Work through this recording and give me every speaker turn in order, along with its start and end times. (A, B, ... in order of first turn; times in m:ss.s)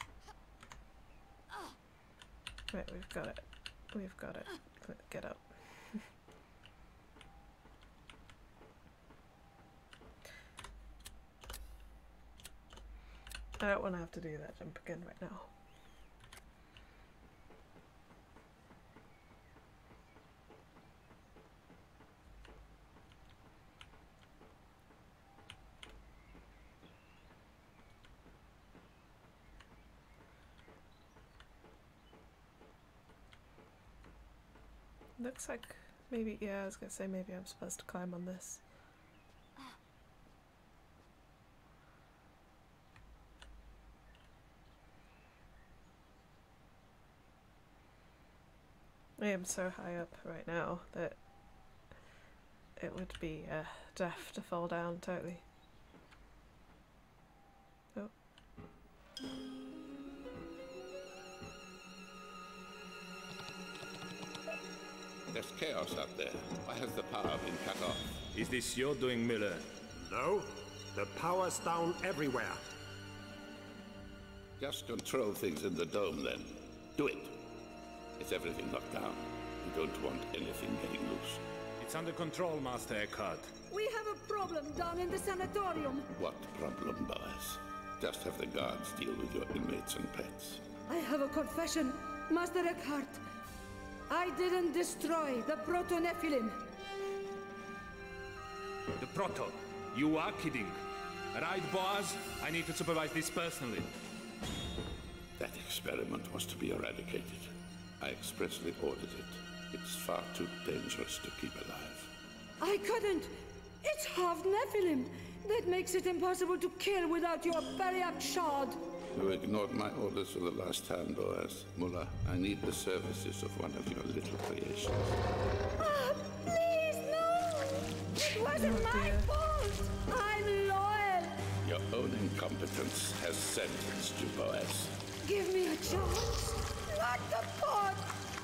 0:02.7-0:06.0 A
0:13.6-0:15.5 A
0:35.2-0:38.6 A
0:49.2-0:51.2 A
0:52.8-0:55.4 A
1:05.3-1:08.2 B
1:08.3-1:09.7 C
1:10.0-1:12.6 D
1:14.6-1:17.5 B
1:18.2-1:21.4 B
1:21.8-1:23.6 C
1:23.7-1:26.1 E
1:26.1-1:30.7 B
1:30.9-1:33.2 E
1:34.1-1:36.7 E
1:39.0-1:40.8 C
1:41.3-1:43.9 C
1:45.4-1:52.1 B
1:52.6-1:58.8 E
1:59.1-2:05.1 B
2:05.8-2:11.5 E
2:08.5-2:09.3 A
2:11.6-2:15.0 B
2:15.2-2:18.2 E